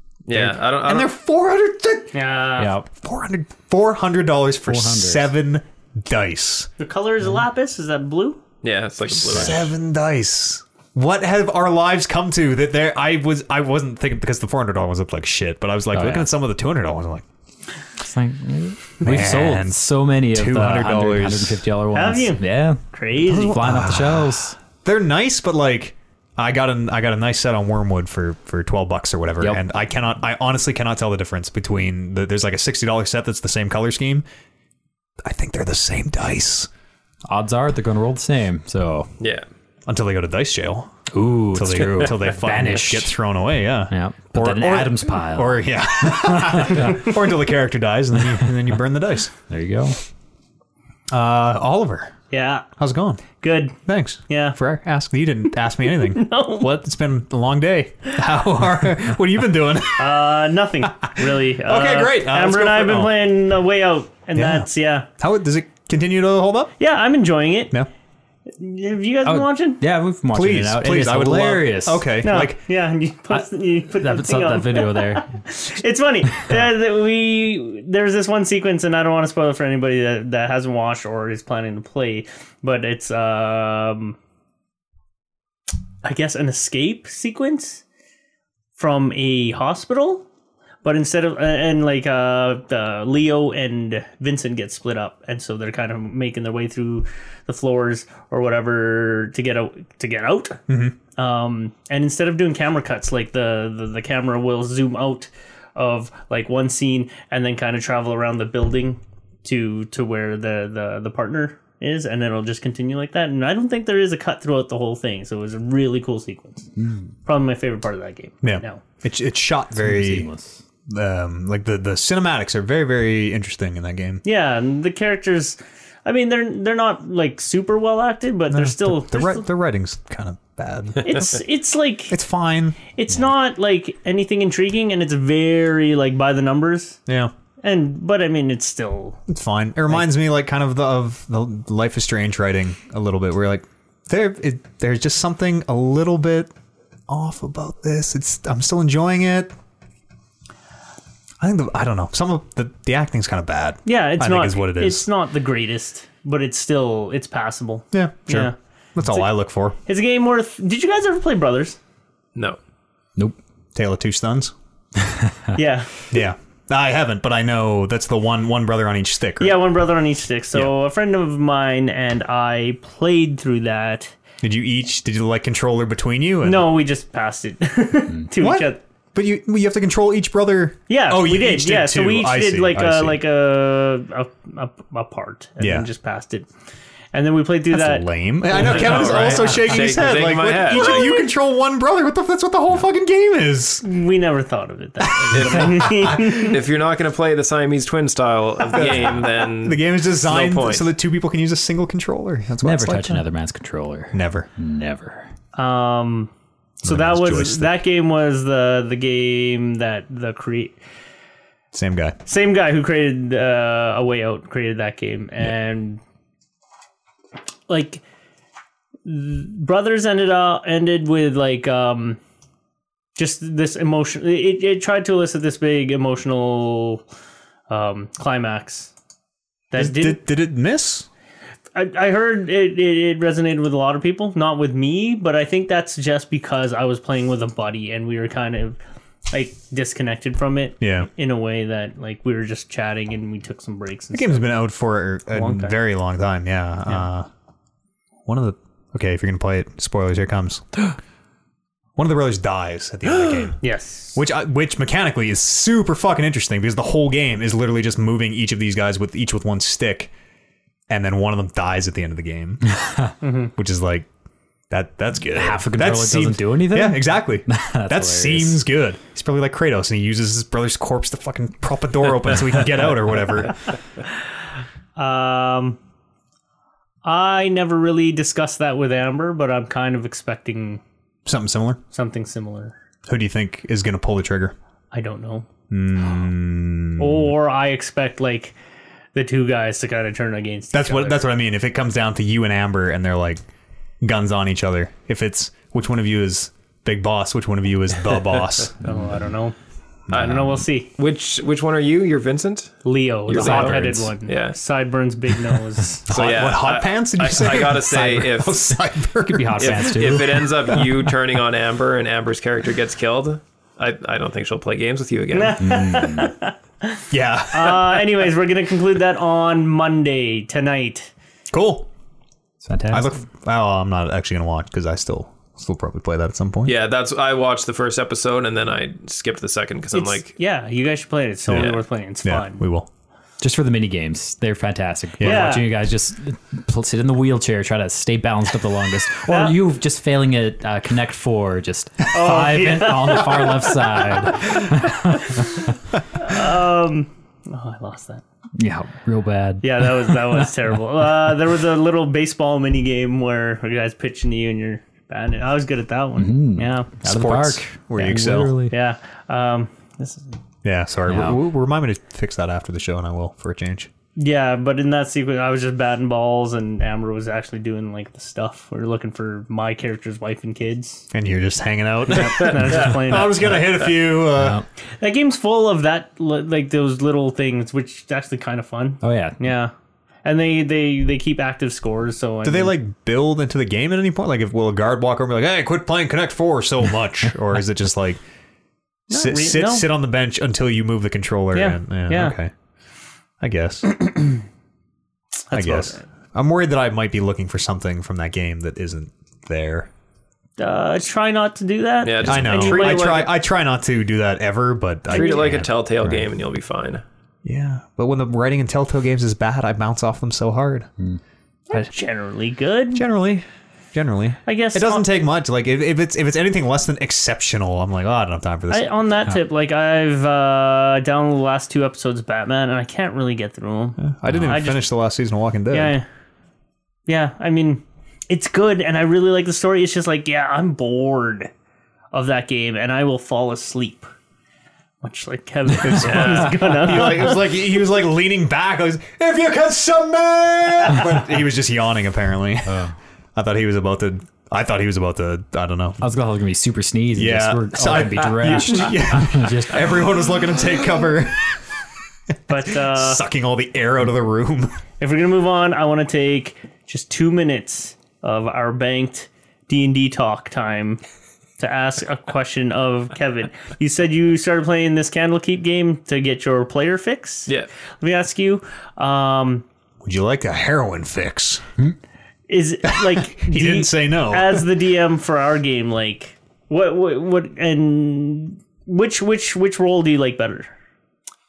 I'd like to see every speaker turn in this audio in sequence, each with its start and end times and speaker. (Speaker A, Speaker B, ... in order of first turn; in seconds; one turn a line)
Speaker A: 0.3-1.1
Speaker B: 0.3-2.1
Speaker C: 2.1-2.7
Speaker D: 2.6-2.9
Speaker B: 2.9-6.7
Speaker D: 4.7-5.3
Speaker C: 6.8-8.4
Speaker A: 8.6-9.7
Speaker B: 9.1-17.2
Speaker D: 15.9-16.3
Speaker D: 18.0-22.8
Speaker B: 19.0-21.7
Speaker C: 21.9-23.6
Speaker B: 23.3-34.2
Speaker D: 23.4-24.6
Speaker B: 35.2-36.7
Speaker D: 37.3-39.1
Speaker A: 39.2-39.5
Speaker B: 39.9-41.0
Speaker D: 41.1-43.1
Speaker B: 41.5-49.3
Speaker D: 43.9-47.1
Speaker D: 49.5-50.0
Speaker B: 51.1-52.1
Speaker C: 52.3-52.7
Speaker B: 52.8-53.2
Speaker C: 53.4-53.8
Speaker B: 53.9-60.1
Speaker C: 54.3-54.6
Speaker C: 56.0-56.7
Speaker C: 60.0-65.1
Speaker B: 61.2-63.2
Speaker B: 64.3-66.7
Speaker C: 66.8-67.8
Speaker C: 68.6-69.8
Speaker D: 69.2-72.1
Speaker B: 70.3-72.6
Speaker C: 72.2-84.2
Speaker D: 73.3-75.3
Speaker C: 86.0-87.8
Speaker C: 88.8-90.2
Speaker C: 90.8-100.6
Speaker B: 100.7-101.0
Speaker C: 101.2-116.7
Speaker D: 116.8-117.1
Speaker C: 117.2-118.8
Speaker B: 118.4-120.3
Speaker D: 119.8-120.6
Speaker B: 120.9-124.2
Speaker C: 124.2-129.5
Speaker B: 128.5-131.3
Speaker C: 131.0-132.2
Speaker B: 132.1-132.8
Speaker C: 132.9-137.0
Speaker B: 137.1-137.3
Speaker C: 137.6-139.2
Speaker B: 139.3-146.5
Speaker B: 147.1-149.5
Speaker B: 151.4-155.1
Speaker C: 153.9-159.3
Speaker B: 157.9-159.8
Speaker C: 159.8-161.8
Speaker B: 163.8-164.5
Speaker D: 165.0-165.6
Speaker C: 165.6-165.9
Speaker B: 166.1-169.6
Speaker C: 169.4-174.2
Speaker B: 174.4-176.7
Speaker C: 176.4-178.8
Speaker B: 178.4-183.2
Speaker C: 180.9-186.5
Speaker B: 185.6-185.9
Speaker C: 187.1-189.9
Speaker B: 187.7-193.8
Speaker A: 188.6-191.2
Speaker C: 190.7-191.2
Speaker C: 193.8-196.6
Speaker B: 195.2-196.3
Speaker A: 195.3-200.9
Speaker B: 198.7-203.2
Speaker D: 202.6-205.3
Speaker B: 204.1-204.5
Speaker C: 205.6-206.3
Speaker B: 206.8-207.8
Speaker C: 206.8-210.8
Speaker B: 211.7-212.2
Speaker C: 212.3-216.0
Speaker C: 217.7-218.0
Speaker C: 219.1-222.2
Speaker C: 223.2-227.0
Speaker C: 227.7-228.9
Speaker C: 229.7-230.2
Speaker B: 229.8-231.1
Speaker C: 231.8-238.8
Speaker C: 239.3-244.6
Speaker B: 240.8-241.1
Speaker B: 244.1-247.3
Speaker C: 245.3-245.8
Speaker B: 248.3-250.7
Speaker B: 252.0-253.6
Speaker C: 253.6-254.2
Speaker B: 254.2-260.1
Speaker B: 260.9-262.7
Speaker D: 262.8-263.1
Speaker C: 263.2-263.5
Speaker B: 263.6-264.1
Speaker B: 264.7-273.6
Speaker D: 265.3-268.6
Speaker C: 275.0-275.8
Speaker C: 277.1-280.8
Speaker B: 281.3-281.8
Speaker C: 281.9-282.8
Speaker B: 283.1-284.6
Speaker C: 284.9-285.5
Speaker B: 285.7-287.3
Speaker C: 287.0-288.6
Speaker C: 289.1-291.2
Speaker B: 290.7-293.4
Speaker B: 294.0-298.8
Speaker C: 298.8-299.6
Speaker D: 298.9-299.2
Speaker B: 300.1-300.6
Speaker C: 300.1-300.9
Speaker A: 300.1-304.6
Speaker C: 302.9-306.1
Speaker D: 303.3-304.1
Speaker B: 306.1-310.4
Speaker A: 306.1-308.7
Speaker D: 309.3-311.0
Speaker A: 309.6-316.0
Speaker C: 315.3-321.1
Speaker D: 315.6-316.3
Speaker B: 317.1-318.0
Speaker B: 321.5-321.9
Speaker D: 322.6-323.1
Speaker B: 322.9-326.8
Speaker A: 326.6-330.3
Speaker C: 329.9-332.6
Speaker B: 331.5-332.9
Speaker A: 331.5-331.8
Speaker D: 333.4-345.7
Speaker B: 335.2-335.6
Speaker C: 335.2-335.7
Speaker C: 339.3-339.6
Speaker C: 342.1-344.3
Speaker C: 346.1-348.2
Speaker D: 348.6-350.5
Speaker C: 349.6-356.9
Speaker D: 356.2-358.8
Speaker B: 357.0-358.5
Speaker C: 358.7-360.3
Speaker B: 360.6-363.9
Speaker D: 361.1-361.4
Speaker C: 364.2-371.1
Speaker B: 371.1-374.6
Speaker C: 372.1-373.7
Speaker D: 374.3-374.6
Speaker C: 375.0-379.7
Speaker D: 379.0-379.4
Speaker C: 380.2-382.8
Speaker B: 382.4-388.2
Speaker C: 389.1-389.9
Speaker B: 389.1-392.5
Speaker C: 391.5-392.4
Speaker B: 393.4-394.0
Speaker C: 395.5-396.0
Speaker B: 395.5-399.9
Speaker C: 400.6-403.2
Speaker A: 402.0-403.3
Speaker B: 402.2-405.7
Speaker A: 405.1-407.0
Speaker D: 405.4-406.1
Speaker B: 407.4-410.9
Speaker C: 411.7-413.1
Speaker B: 412.9-418.9
Speaker C: 414.5-415.1
Speaker C: 418.7-424.9
Speaker B: 424.0-426.0
Speaker D: 424.3-424.6
Speaker C: 425.7-426.1
Speaker C: 427.1-431.5
Speaker C: 432.1-434.1
Speaker C: 435.0-437.5
Speaker B: 435.8-446.0
Speaker A: 436.1-436.4
Speaker D: 442.7-442.9
Speaker D: 446.0-450.1
Speaker B: 447.1-451.6
Speaker C: 452.5-453.2
Speaker B: 452.6-454.7
Speaker C: 455.0-461.0
Speaker C: 461.6-469.6
Speaker B: 470.0-471.6
Speaker C: 472.5-480.7
Speaker B: 472.9-474.7